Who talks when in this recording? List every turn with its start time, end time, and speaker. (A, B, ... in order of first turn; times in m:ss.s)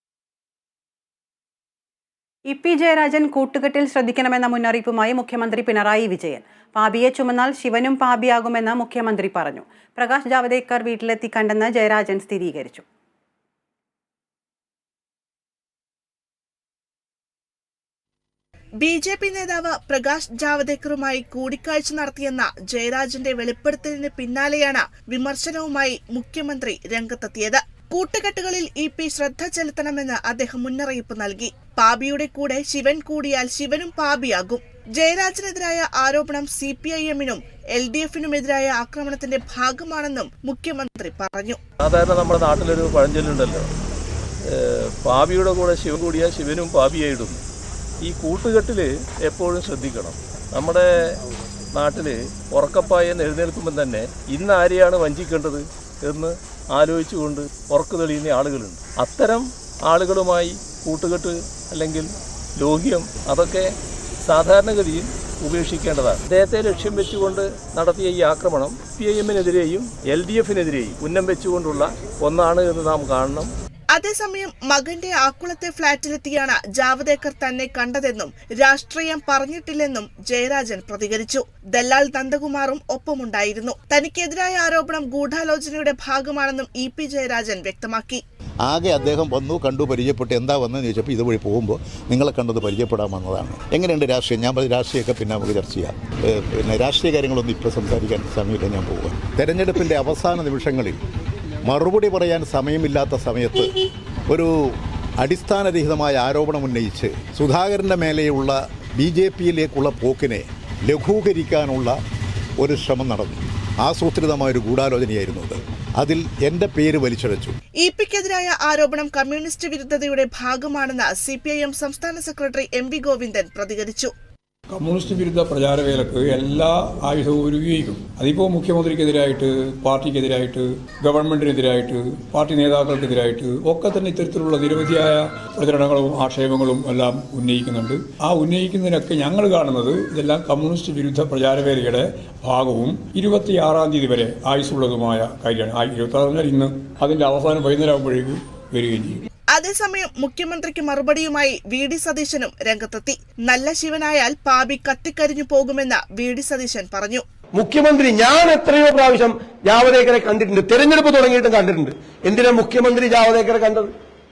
0:02.5-0:12.8 A
0:18.8-0:41.6 B
0:41.8-0:43.7 C
0:44.5-0:47.4 C
0:48.0-0:50.8 C
0:51.7-1:03.7 C
1:04.2-1:13.5 C
1:13.9-1:28.2 B
1:28.6-1:41.0 D
1:41.6-1:52.0 D
1:52.6-1:57.5 D
1:57.8-2:04.1 B
2:04.7-2:29.2 E
2:29.5-2:37.2 B
2:37.5-2:43.9 F